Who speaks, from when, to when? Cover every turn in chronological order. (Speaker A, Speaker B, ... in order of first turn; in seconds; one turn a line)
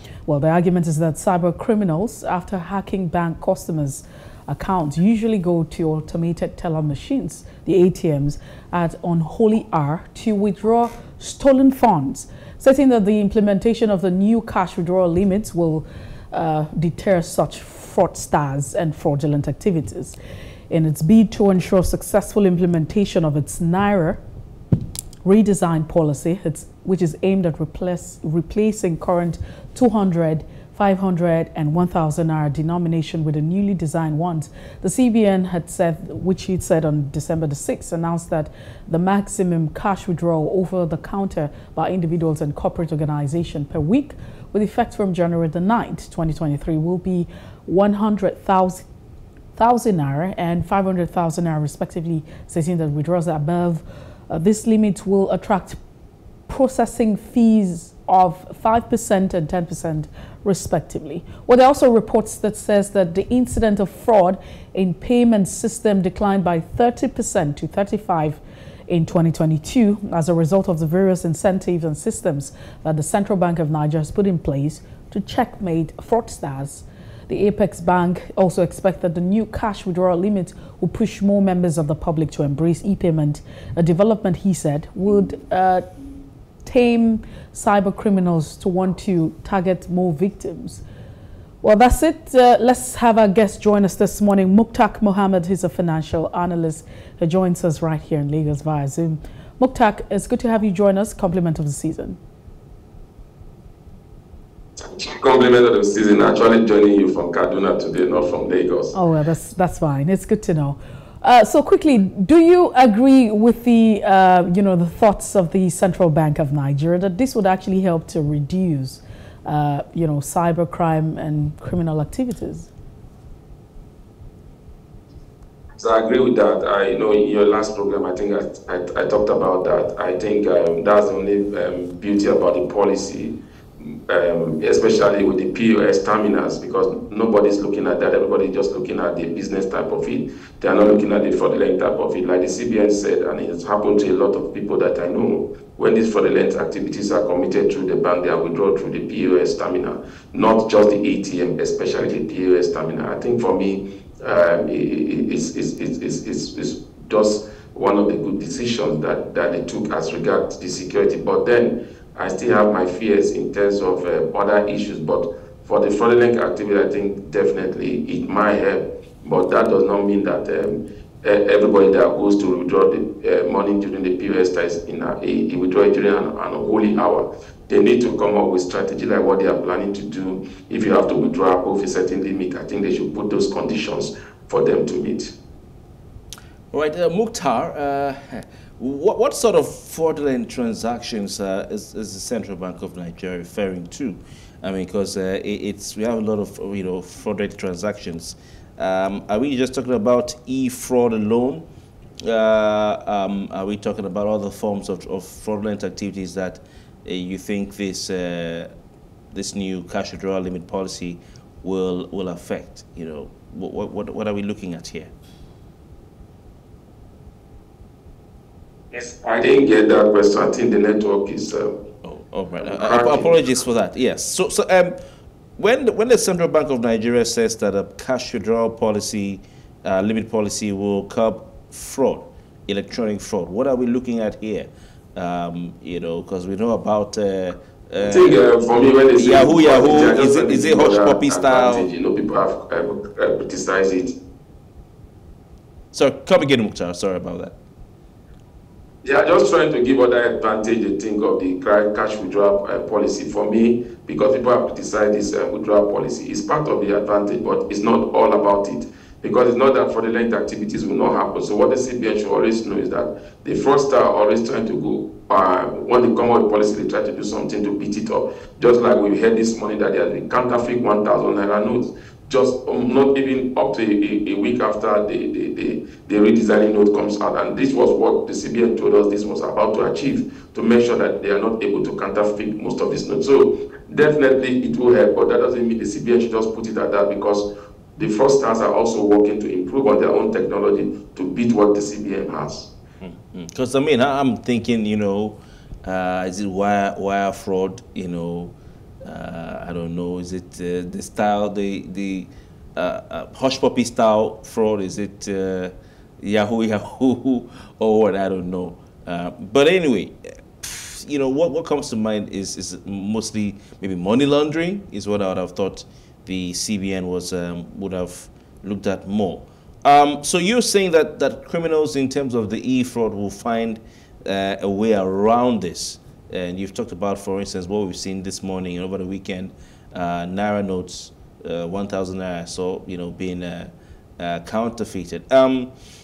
Speaker A: 0.3-20.2
Speaker A: 20.7-24.2
Speaker A: 25.2-48.9
Speaker A: 49.5-55.8
Speaker A: 56.5-85.8
Speaker A: 86.6-90.8
Speaker A: 91.6-102.2
Speaker B: 104.8-108.9
Speaker A: 108.9-122.7
Speaker B: 125.8-185.3
Speaker C: 186.7-201.6
Speaker C: 202.2-208.7
Speaker C: 209.3-215.1
Speaker B: 218.9-221.8
Speaker C: 222.0-225.0
Speaker B: 222.6-223.3
Speaker C: 225.6-238.4
Speaker B: 238.0-244.1
Speaker C: 239.2-241.8
Speaker C: 245.9-247.6
Speaker B: 249.0-292.7
Speaker C: 293.0-335.7